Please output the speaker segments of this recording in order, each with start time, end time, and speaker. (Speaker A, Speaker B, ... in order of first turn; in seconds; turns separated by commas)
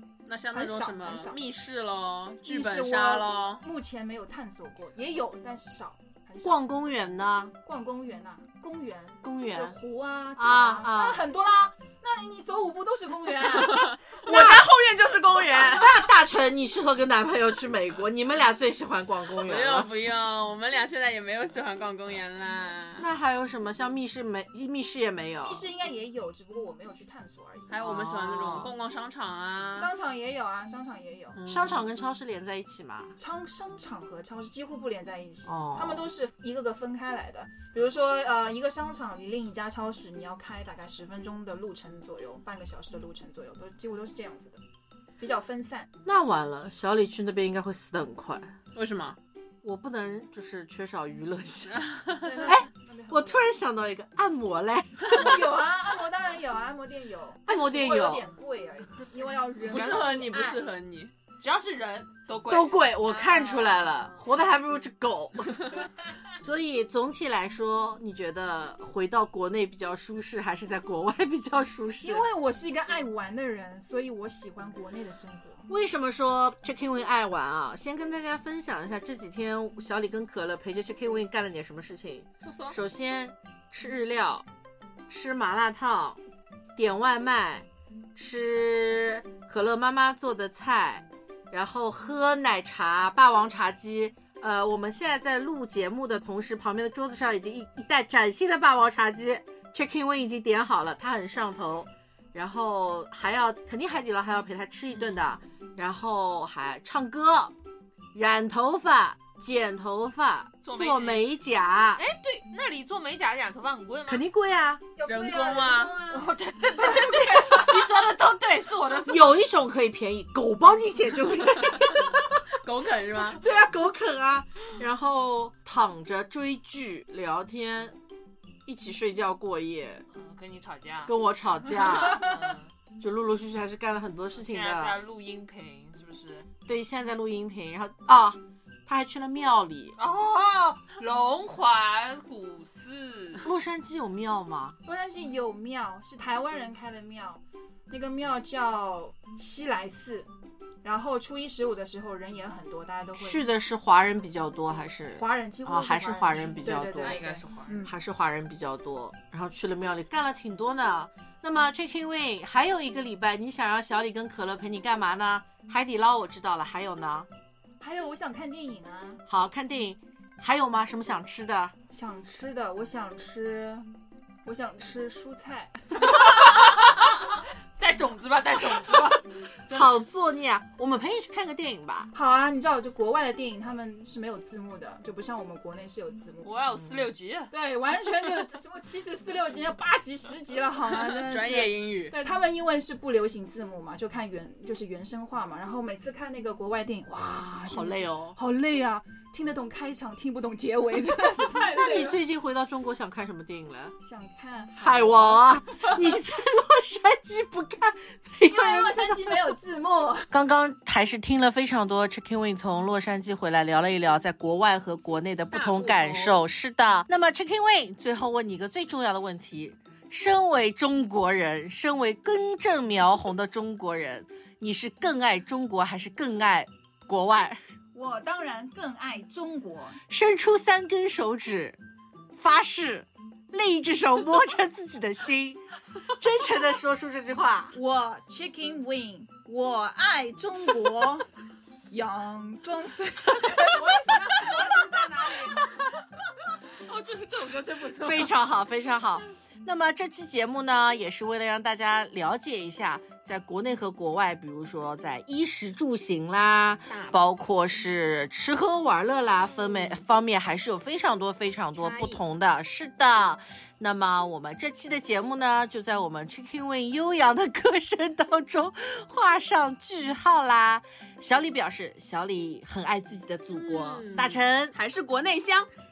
Speaker A: 0.3-3.6, Speaker B: 0.5-1.4, Speaker B: 2.5-6.7, Speaker C: 6.4-7.5, Speaker B: 7.7-14.0, Speaker C: 9.2-9.8, Speaker C: 10.4-11.2, Speaker A: 13.5-16.1, Speaker C: 15.6-19.9, Speaker A: 19.4-23.1, Speaker C: 23.0-25.6, Speaker B: 25.4-27.8, Speaker A: 27.7-29.9, Speaker D: 27.8-28.7, Speaker B: 29.8-31.4, Speaker A: 31.4-31.8, Speaker C: 31.5-33.2, Speaker B: 33.2-44.6, Speaker C: 35.5-36.1, Speaker B: 45.2-45.9, Speaker C: 46.0-48.5, Speaker A: 48.8-49.2, Speaker C: 49.6-51.9, Speaker A: 51.8-52.2, Speaker B: 52.2-53.5, Speaker C: 52.4-55.4, Speaker B: 55.0-60.7, Speaker C: 57.5-58.3, Speaker A: 59.6-61.1, Speaker D: 61.4-64.3, Speaker C: 62.5-65.8, Speaker C: 66.4-72.2, Speaker B: 72.0-75.7, Speaker C: 75.7-84.5, Speaker D: 82.4-82.8, Speaker C: 85.1-86.2, Speaker C: 86.8-107.5, Speaker C: 108.1-112.0, Speaker D: 110.6-111.2, Speaker D: 112.0-114.2, Speaker C: 114.1-114.8, Speaker B: 115.0-117.2, Speaker A: 115.1-116.0, Speaker D: 116.1-119.4, Speaker C: 119.1-122.4, Speaker A: 122.5-123.4, Speaker C: 123.2-128.0, Speaker C: 128.7-130.1, Speaker D: 130.1-131.1, Speaker C: 131.1-132.4, Speaker D: 131.8-132.7, Speaker C: 133.0-135.0, Speaker D: 134.3-136.5, Speaker C: 136.7-140.0, Speaker D: 140.0-143.5, Speaker C: 143.4-144.8, Speaker B: 144.8-150.3, Speaker B: 150.8-153.4, Speaker C: 153.2-157.2, Speaker B: 155.2-157.9, Speaker D: 157.0-157.8, Speaker C: 157.8-167.3, Speaker B: 167.8-169.2, Speaker C: 169.3-171.8, Speaker B: 171.9-173.9, Speaker B: 174.4-176.3, Speaker D: 176.2-177.2, Speaker D: 177.8-179.9, Speaker C: 179.7-182.1, Speaker B: 182.1-186.5, Speaker D: 186.4-187.5, Speaker B: 187.5-202.2, Speaker A: 190.9-192.2, Speaker C: 197.7-198.4, Speaker C: 201.7-203.9, Speaker B: 204.0-206.0, Speaker C: 204.8-209.4, Speaker B: 208.5-210.3, Speaker C: 210.3-227.6, Speaker A: 215.5-216.4, Speaker B: 227.9-230.0, Speaker C: 230.1-231.8, Speaker C: 232.4-237.8, Speaker B: 237.7-241.3, Speaker B: 241.9-245.7, Speaker A: 246.8-248.3, Speaker C: 248.0-274.7, Speaker A: 256.9-257.2, Speaker A: 259.6-260.0, Speaker A: 261.8-262.2, Speaker A: 273.5-275.7